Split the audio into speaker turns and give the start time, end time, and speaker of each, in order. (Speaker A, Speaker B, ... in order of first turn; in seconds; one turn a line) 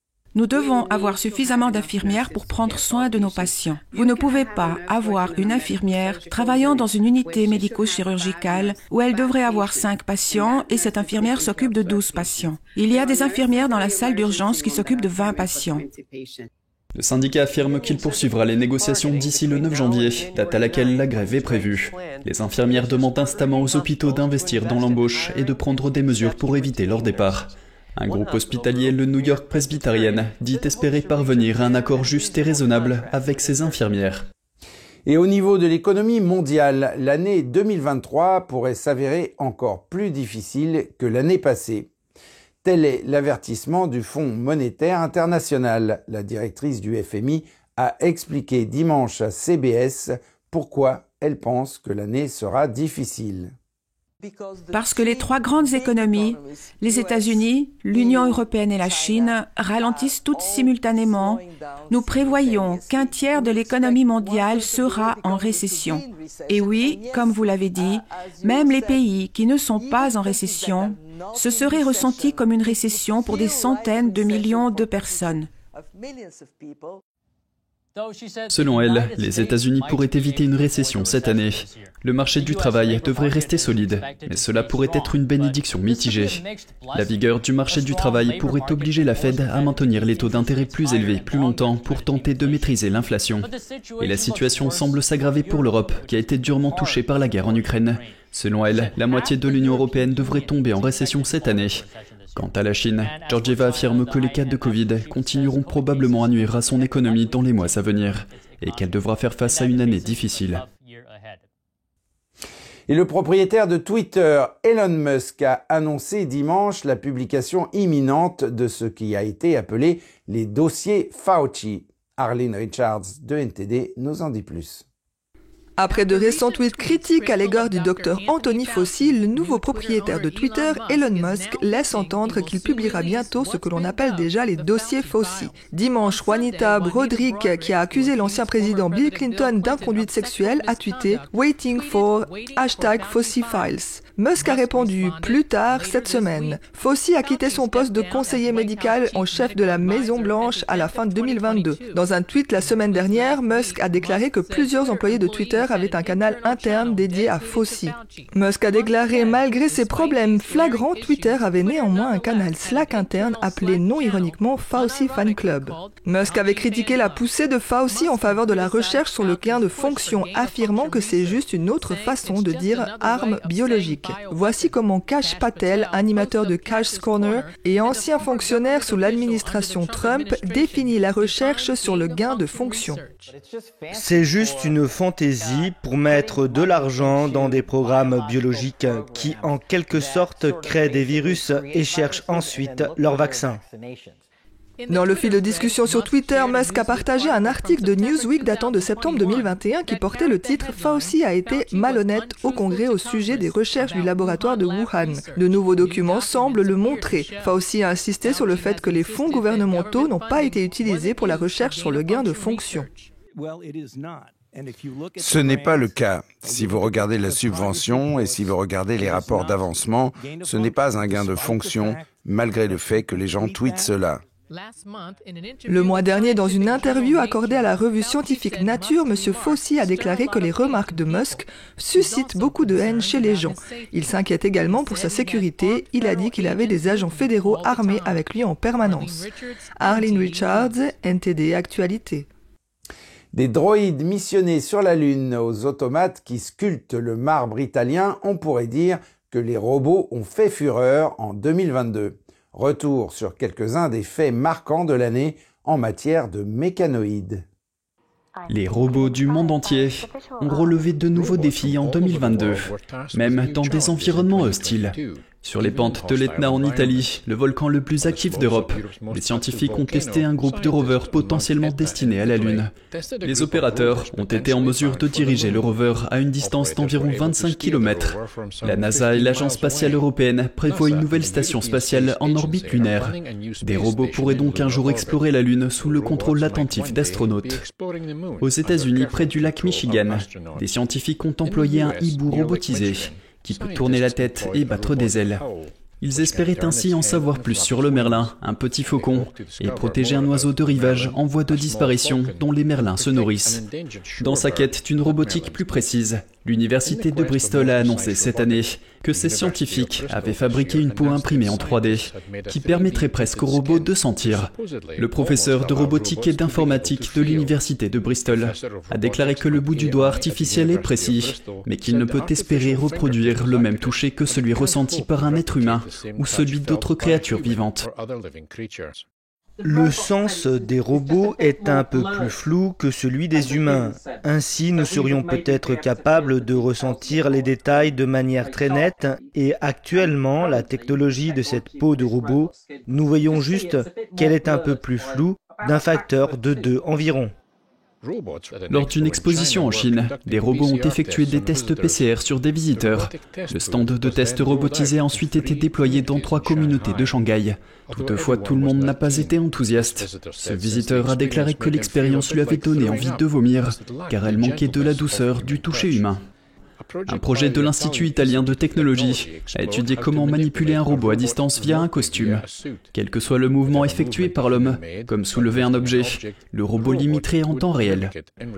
Speaker A: 0.3-15.9
Speaker B: 17.0-34.2
Speaker C: 35.0-41.9
Speaker C: 42.6-53.5
Speaker A: 54.7-75.5
Speaker B: 78.5-110.6
Speaker C: 112.9-124.8
Speaker D: 125.8-183.0
Speaker E: 183.9-193.6
Speaker D: 194.9-213.0
Speaker C: 215.2-224.2
Speaker D: 225.7-239.3
Speaker D: 239.8-242.2
Speaker C: 243.3-257.4
Speaker B: 258.5-287.6
Speaker B: 288.4-295.4
Speaker B: 296.0-303.6
Speaker B: 304.2-327.9
Speaker E: 329.6-347.3
Speaker B: 348.7-366.2
Speaker B: 367.1-378.1